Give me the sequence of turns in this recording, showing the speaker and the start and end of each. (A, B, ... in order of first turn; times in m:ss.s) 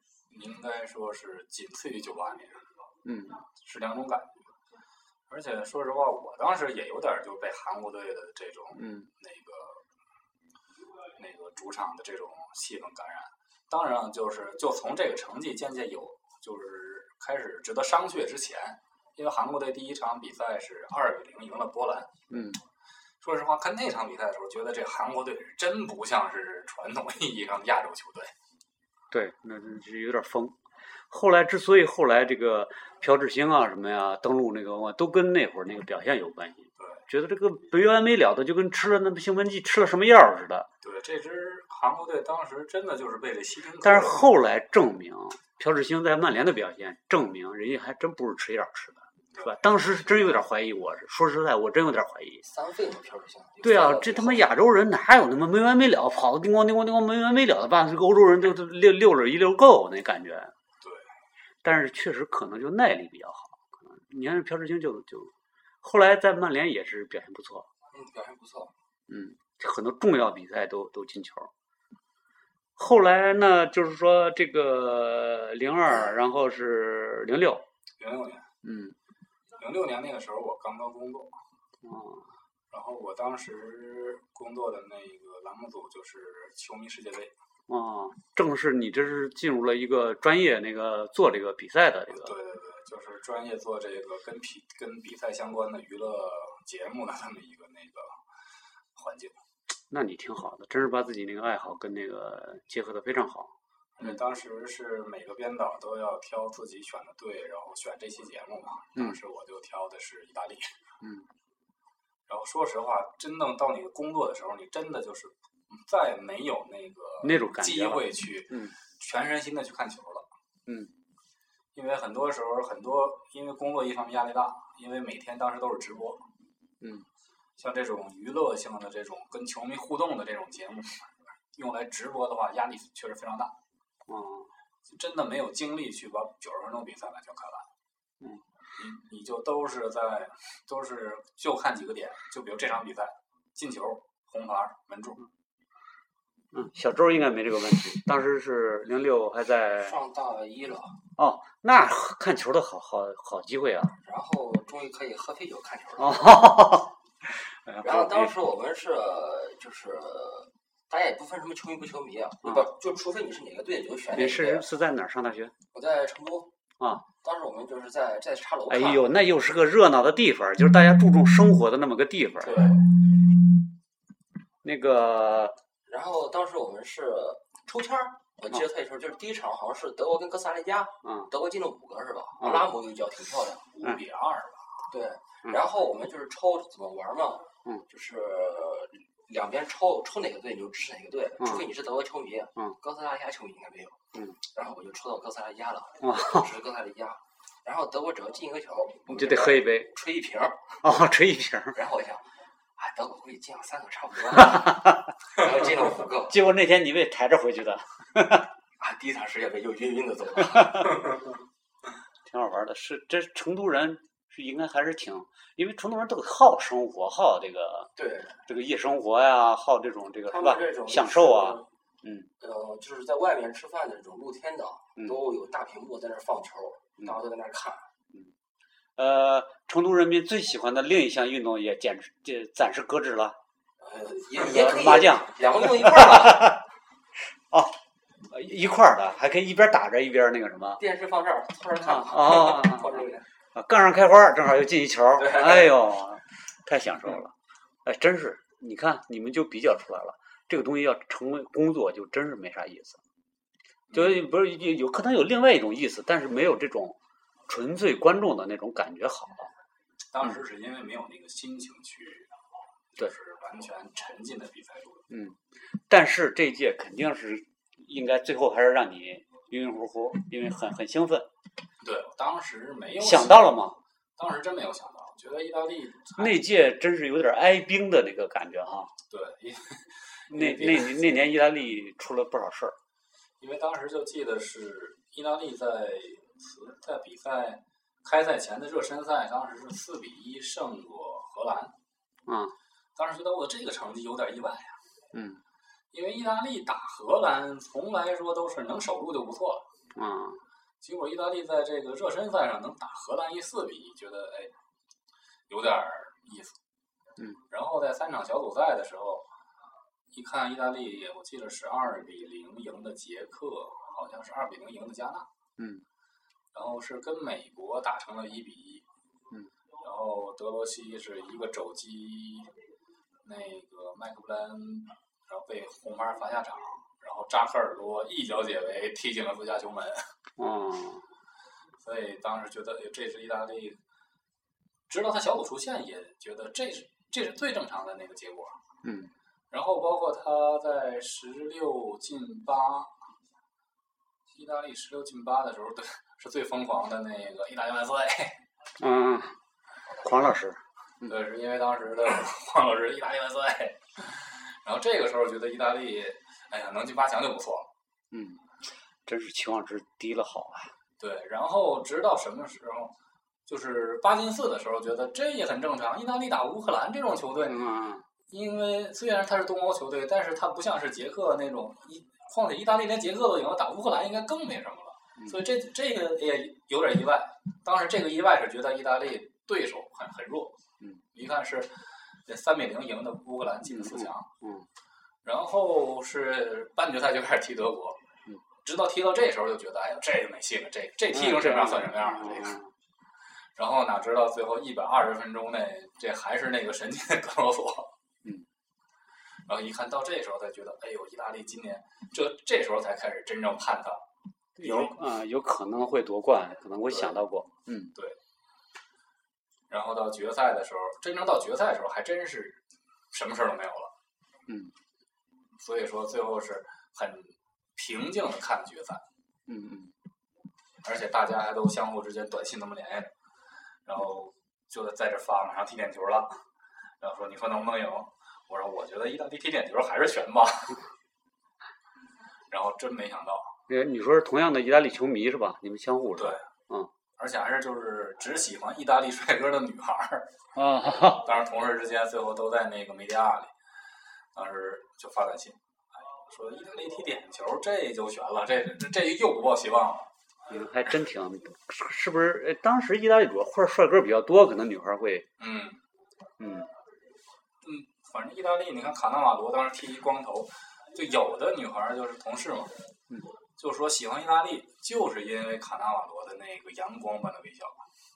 0:00.3-0:02.6 A
0:03.0-0:03.4 B
0:03.5-0:04.5 A
0:05.3-0:09.8 A
0:08.8-0:09.1 B
0:11.2-0:22.1 A
0:22.3-0:22.6 B
0:23.2-0:28.3 A
0:29.1-0:30.6 B
0:31.1-0:40.7 B
0:40.8-0:44.2 A
0:43.8-0:52.4 B
0:49.3-0:50.3 A
0:52.4-0:54.5 C
0:53.6-1:00.5 B
1:01.6-1:07.7 B
1:07.9-1:08.7 C
1:09.1-1:11.5 B
1:12.8-1:17.6 B
1:18.0-1:18.5 A
1:18.6-1:19.0 B
1:19.6-1:21.4 A
1:21.8-1:22.3 B
1:22.7-1:27.3 A
1:27.7-1:32.4 B
1:32.1-1:38.2 A
1:38.9-1:39.4 A
1:39.9-1:44.2 B
1:44.0-1:50.7 A
1:51.0-1:51.3 B
1:52.3-2:00.3 A
1:57.2-1:58.7 B
2:00.7-2:00.9 B
2:01.7-2:06.2 A
2:06.8-2:07.1 B
2:07.6-2:13.5 A
2:14.1-2:14.5 B
2:14.9-2:17.7 A
2:18.7-2:25.2 A
2:26.5-2:30.0 B
2:29.8-2:31.0 C
2:31.2-2:33.9 B
2:34.0-2:36.5 C
2:36.0-2:38.3 B
2:37.8-2:44.7 C
2:44.1-2:45.5 B
2:45.7-2:46.5 C
2:46.8-2:47.0 B
2:47.2-2:49.1 C
2:48.7-2:52.8 B
2:52.4-2:52.8 C
2:54.6-2:55.6 B
2:55.9-3:03.7 C
3:01.0-3:01.3 B
3:02.4-3:02.7 B
3:03.7-3:04.7 A
3:04.9-3:20.7 C
3:11.4-3:11.6 B
3:16.0-3:16.4 B
3:19.1-3:19.9 B
3:20.8-3:21.8 B
3:21.7-3:26.4 C
3:24.4-3:25.1 B
3:26.2-3:28.5 B
3:28.8-3:31.2 C
3:30.6-3:30.9 B
3:32.2-3:37.9 B
3:38.0-3:38.4 C
3:38.5-3:42.3 B
3:40.3-3:41.7 C
3:42.4-3:47.9 C
3:49.0-3:53.4 B
3:53.8-3:56.6 C
3:54.3-3:56.6 B
3:57.5-4:00.8 B
4:00.8-4:03.2 C
4:01.8-4:13.0 B
4:05.2-4:05.8 C
4:13.9-4:14.2 A
4:13.9-4:19.5 B
4:20.1-4:22.3 A
4:22.9-4:25.1 A
4:25.1-4:31.3 B
4:31.8-4:33.6 A
4:33.0-4:33.8 B
4:34.2-4:36.5 A
4:36.2-4:38.9 B
4:39.1-4:41.2 A
4:40.3-4:42.8 B
4:43.4-4:51.7 A
4:52.3-4:52.6 B
4:53.0-4:54.8 A
4:55.1-4:55.4 B
4:55.9-4:59.6 A
4:59.9-5:00.4 B
5:00.8-5:04.5 A
5:05.5-5:06.6 A
5:07.5-5:09.3 A
5:10.1-5:15.3 A
5:15.6-5:15.8 B
5:16.5-5:18.8 A
5:19.8-5:22.5 A
5:23.2-5:30.1 A
5:30.4-5:31.1 B
5:31.8-5:33.8 A
5:34.9-5:38.6 A
5:38.8-5:39.1 B
5:39.5-5:42.9 A
5:44.3-5:48.4 A
5:48.8-5:49.4 B
5:49.9-5:51.1 B
5:51.0-5:57.7 A
5:58.1-5:58.4 B
5:59.0-6:00.8 B
6:01.0-6:02.9 A
6:03.5-6:07.7 A
6:07.4-6:08.0 B
6:08.3-6:20.6 A
6:21.1-6:24.3 A
6:23.6-6:24.7 B
6:25.2-6:28.0 A
6:28.6-6:32.6 A
6:31.1-6:32.7 B
6:33.6-6:37.9 A
6:39.4-6:44.0 A
6:44.6-6:47.9 B
6:44.6-6:44.9 A
6:49.7-6:52.6 A
6:53.1-6:53.9 A
6:54.5-6:54.7 B
6:55.6-6:59.0 A
6:59.5-6:59.9 B
7:00.8-7:03.1 A
7:03.8-7:06.4 A
7:07.0-7:10.9 A
7:12.5-7:13.6 A
7:13.7-7:16.9 B
7:16.2-7:16.4 A
7:17.2-7:20.3 A
7:20.5-7:21.3 B
7:20.9-7:23.5 A
7:24.3-7:25.6 A
7:26.2-7:30.1 A
7:30.5-7:35.3 B
7:35.4-7:35.8 A
7:36.4-7:36.7 B
7:37.6-7:42.7 A
7:43.6-7:47.8 A